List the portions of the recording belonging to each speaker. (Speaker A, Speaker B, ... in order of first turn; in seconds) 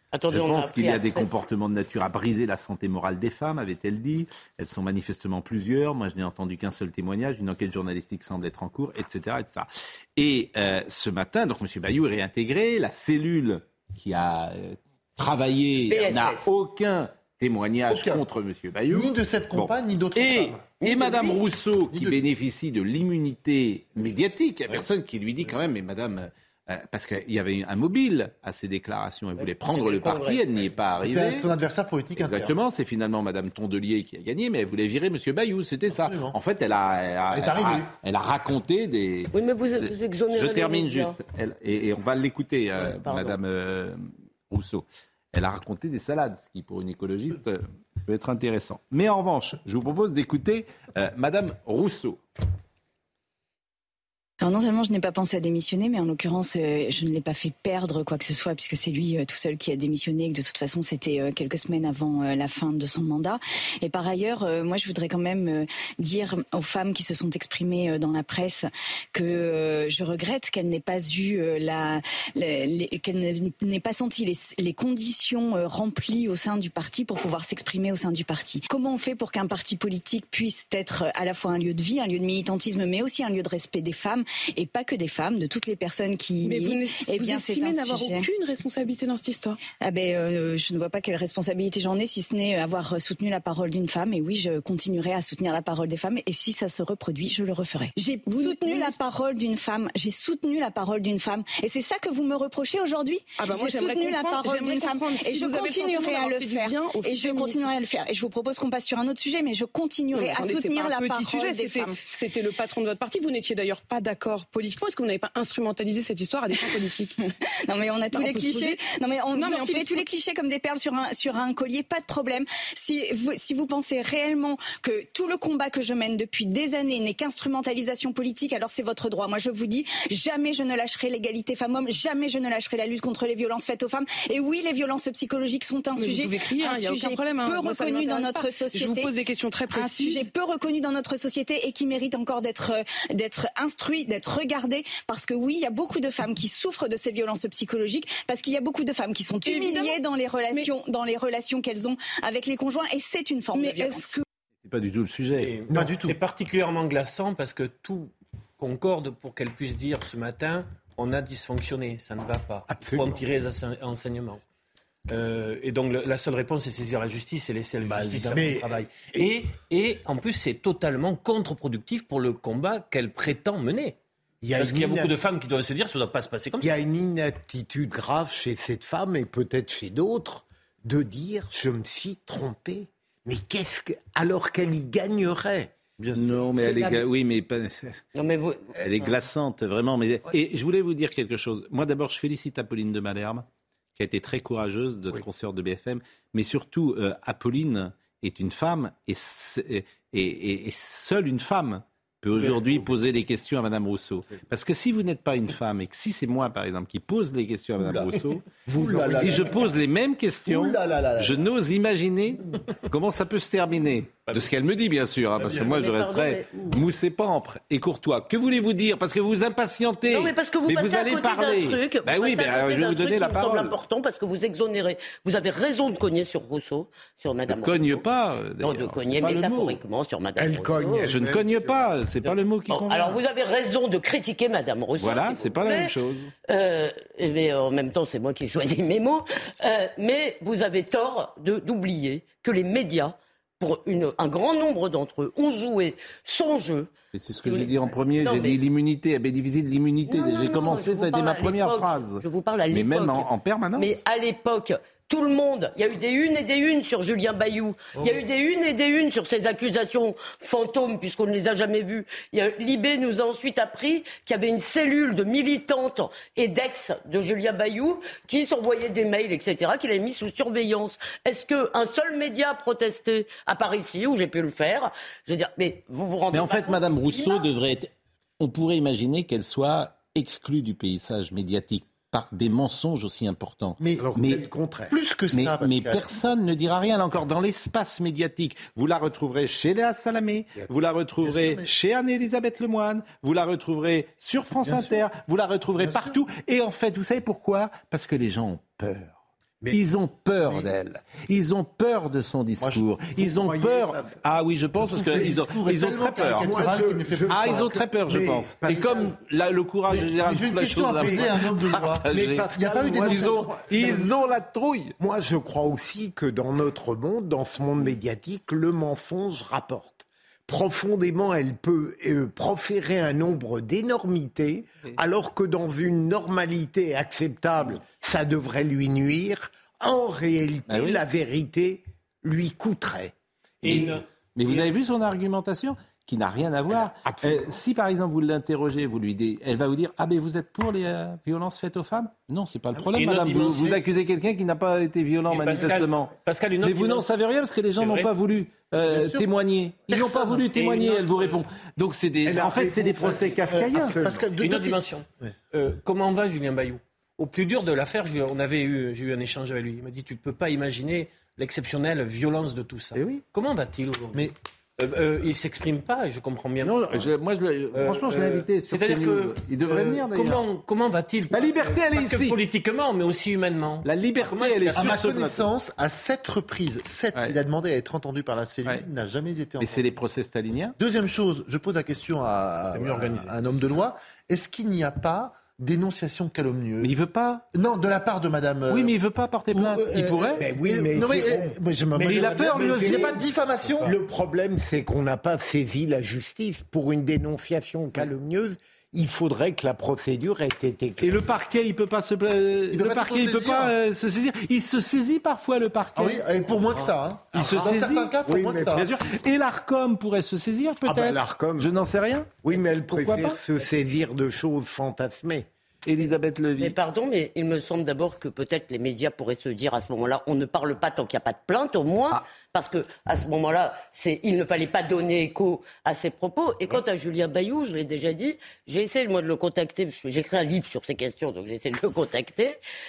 Speaker A: 0.1-1.3, 15.9-16.4, 20.8-21.4, 29.4-30.4, 39.3-41.2, 42.8-43.4, 188.2-189.1, 215.4-216.7, 220.1-228.0, 228.6-231.1, 232.2-235.9, 236.5-246.9, 247.4-248.6, 250.1-277.5, 416.6-432.6
Speaker B: 0.3-31.5, 32.1-52.2, 154.6-155.5, 186.1-188.0, 188.7-208.4, 209.0-223.8, 227.5-229.8, 231.0-233.2, 235.0-236.3, 247.1-254.0, 276.3-284.4, 285.3-299.2, 299.7-306.5, 307.3-314.9, 330.7-331.0, 333.6-354.0, 362.9-363.2, 366.6-370.4, 371.3-372.4, 373.8-375.5, 379.6-380.8, 386.8-387.4, 388.7-390.4, 392.0-393.2, 401.0-408.1, 408.8-412.4, 412.9-413.4, 415.8-416.8
Speaker C: 17.9-18.2, 18.9-20.6, 21.9-22.3, 31.0-32.5, 36.0-36.4, 37.3-37.9, 155.7-156.2, 186.0-186.8, 202.3-202.8, 207.8-209.7, 210.5-211.5, 283.8-284.1, 284.9-286.2, 291.2-291.6, 294.6-295.0, 295.8-296.2, 304.8-307.8, 309.9-314.1, 348.8-349.2, 349.9-350.5, 353.5-355.3, 374.7-379.9, 380.8-386.9, 387.5-388.9, 389.5-393.9, 402.7-403.7, 405.9-408.9
Speaker D: 54.4-88.3, 89.8-112.0, 117.7-139.1, 139.7-154.2
Speaker E: 86.4-89.6, 98.2-99.0, 103.4-107.7, 110.1-117.2, 118.1-118.8, 119.3-120.0, 135.9-140.3, 149.4-150.0, 153.6-154.1
Speaker F: 155.3-164.4, 165.1-174.0, 174.5-176.7, 214.2-214.5, 333.6-334.0, 342.9-343.8, 345.3-347.1, 347.8-348.1, 350.5-351.4, 354.4-367.1, 367.7-375.1
Speaker G: 162.7-163.2, 167.8-169.3, 174.4-175.1, 176.6-187.0, 208.7-209.6, 230.4-231.8, 284.0-284.9, 303.1-304.2, 306.4-309.1, 311.0-311.3, 312.0-314.1, 315.0-333.1, 333.6-334.0, 337.0-337.6, 352.2-354.3, 390.3-393.2, 393.8-401.3, 407.5-408.9, 410.9-411.7, 412.4-415.5